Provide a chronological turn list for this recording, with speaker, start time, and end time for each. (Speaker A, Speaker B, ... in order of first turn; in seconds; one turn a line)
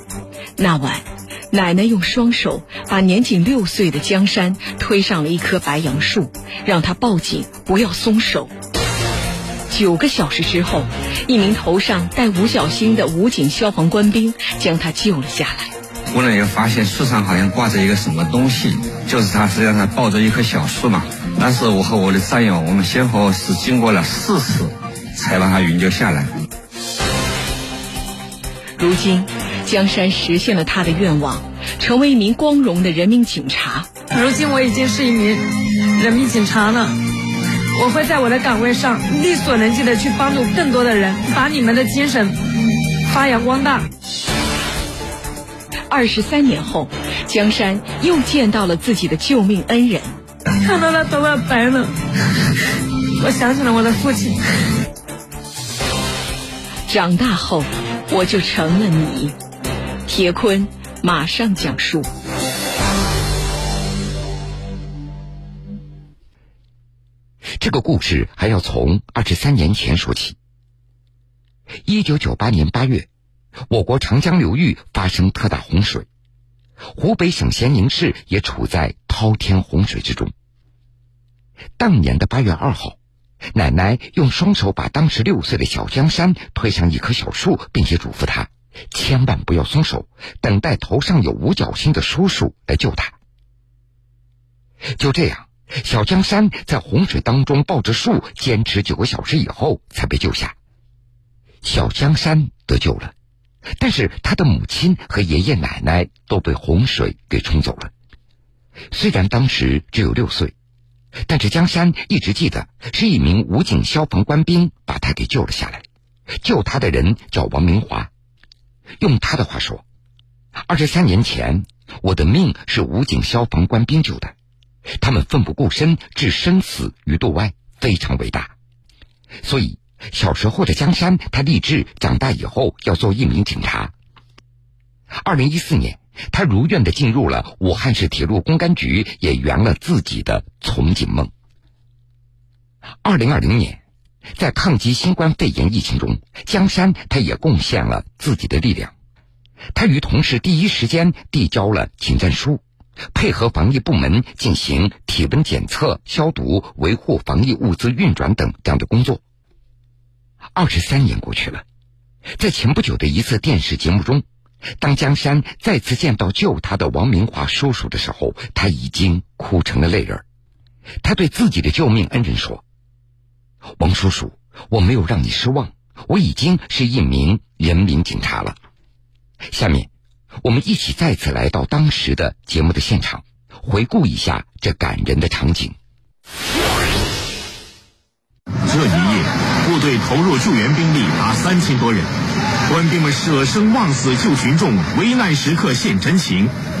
Speaker A: 0.6-8.5
Speaker A: 9.7-15.7
Speaker B: 16.1-18.3
Speaker B: 19.1-21.0
Speaker B: 21.6-26.2
Speaker A: 28.8-33.9
Speaker C: 34.1-35.4
Speaker C: 36.0-36.9
Speaker C: 37.7-42.4
Speaker C: 43.0-43.9
Speaker A: 45.9-50.1
Speaker C: 50.6-51.9
Speaker C: 53.2-54.4
Speaker A: 56.9-59.3
Speaker A: 60.1-62.1
Speaker D: 67.6-70.3
Speaker D: 71.8-73.1
Speaker D: 73.7-76.1
Speaker D: 77.0-80.3
Speaker D: 81.8-83.0
Speaker D: 83.5-93.1
Speaker D: 95.0-100.5
Speaker D: 101.6-103.1
Speaker D: 103.8-107.9
Speaker D: 108.9-110.5
Speaker D: 111.3-115.8
Speaker D: 116.4-118.1
Speaker D: 119.0-119.8
Speaker D: 120.7-124.3
Speaker D: 125.0-128.5
Speaker D: 129.4-133.9
Speaker D: 135.2-141.3
Speaker D: 143.0-143.8
Speaker D: 144.4-148.9
Speaker D: 149.7-152.6
Speaker D: 153.1-159.2
Speaker D: 160.6-161.6
Speaker D: 162.4-164.2
Speaker D: 164.8-170.2
Speaker D: 171.0-172.6
Speaker D: 173.8-178.6
Speaker D: 179.5-179.9
Speaker D: 180.4-185.7
Speaker E: 188.7-192.1
Speaker E: 192.7-196.5